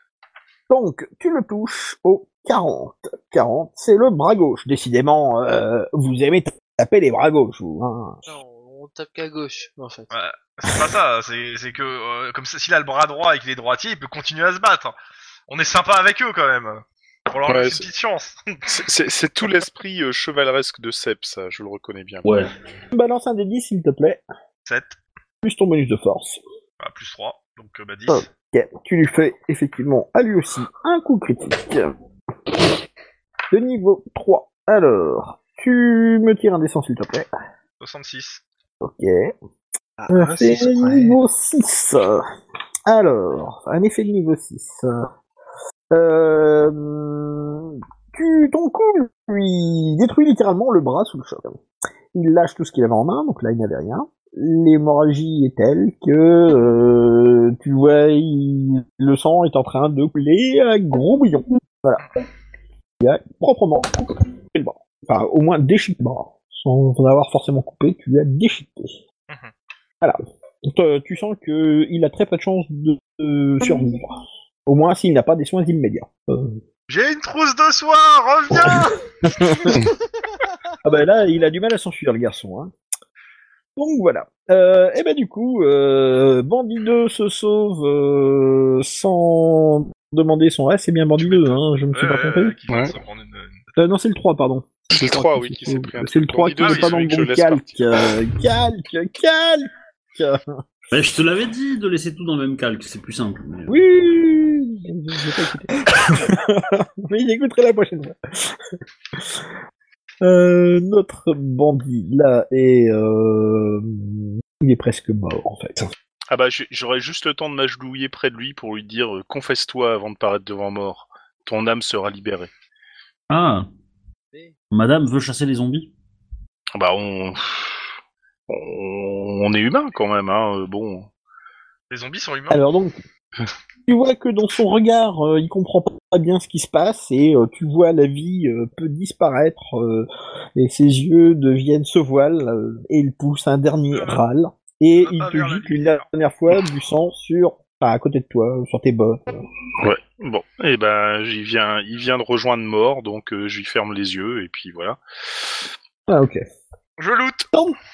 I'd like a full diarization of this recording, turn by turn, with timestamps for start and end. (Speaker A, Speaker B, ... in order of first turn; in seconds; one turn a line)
Speaker A: 0.7-8.2
Speaker B: 8.2-10.1
Speaker C: 10.1-14.9
Speaker C: 15.5-18.5
Speaker D: 17.5-17.8
Speaker D: 18.6-22.2
Speaker E: 22.2-22.5
Speaker A: 22.9-24.2
Speaker C: 24.6-25.0
Speaker A: 25.4-26.4
Speaker C: 26.8-28.3
Speaker A: 28.1-31.9
Speaker A: 33.5-37.3
Speaker C: 37.8-38.4
Speaker A: 38.8-39.3
Speaker B: 40.0-41.2
Speaker A: 40.1-42.2
Speaker A: 42.9-45.1
Speaker A: 45.9-51.6
Speaker A: 52.1-62.1
Speaker A: 63.0-68.9
Speaker A: 70.0-76.6
Speaker C: 76.9-79.8
Speaker A: 78.7-79.8
Speaker A: 80.8-82.7
Speaker A: 83.8-92.5
Speaker C: 91.2-93.7
Speaker D: 92.7-92.9
Speaker A: 93.8-100.6
Speaker D: 94.9-97.8
Speaker E: 100.9-103.8
Speaker A: 103.7-109.5
Speaker A: 110.2-115.9
Speaker D: 116.3-122.5
Speaker E: 123.3-123.7
Speaker E: 124.7-125.9
Speaker D: 126.7-127.9
Speaker D: 128.5-131.1
Speaker C: 131.9-132.6
Speaker A: 132.5-133.0
Speaker A: 133.9-149.4
Speaker C: 143.9-144.2
Speaker C: 145.0-146.0
Speaker D: 149.8-155.6
Speaker A: 156.1-156.4
Speaker C: 157.0-157.5